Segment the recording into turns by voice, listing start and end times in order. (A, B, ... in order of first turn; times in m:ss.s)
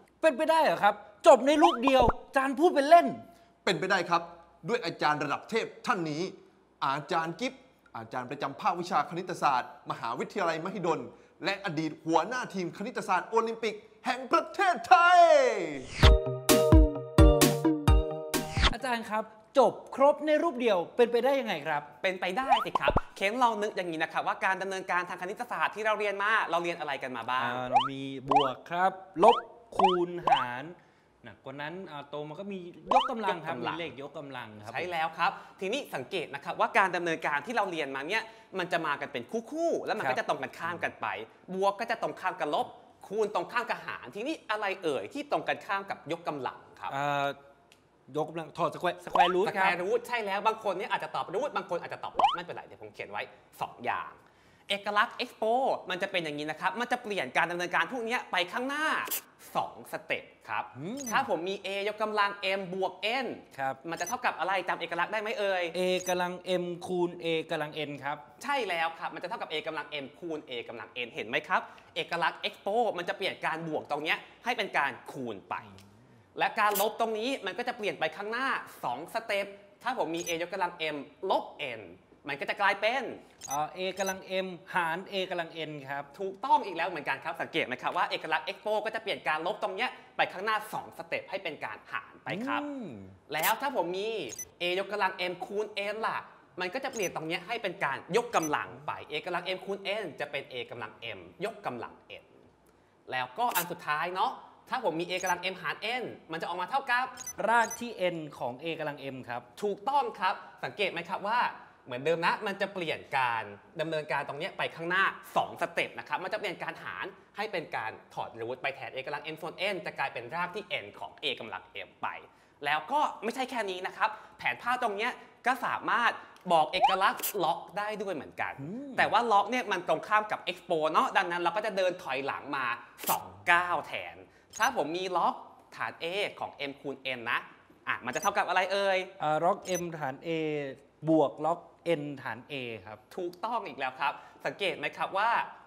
0:00.2-0:03.2 A
0:03.6-0:15.9 B
0:18.7-0:21.9 A
0:22.0-0:27.6 C
0:27.4-0:34.9 A
0:33.2-0:33.9 C
0:34.6-0:47.0 C
0:46.9-0:47.4 A
0:48.1-0:49.8 A
0:49.4-1:05.8 C
1:00.8-1:01.3 A
1:03.5-1:03.8 A
1:05.7-1:08.2 A
1:08.4-1:15.7 C
1:16.4-1:23.2 C
1:23.5-1:26.1 A
1:26.1-1:32.7 C
1:32.3-1:33.2 A
1:33.3-1:42.4 C
1:43.1-1:47.2 C
1:47.4-1:49.5 A
1:49.6-2:19.1 C
2:08.6-2:09.1 A
2:19.2-2:23.0 A
2:23.1-2:25.5 C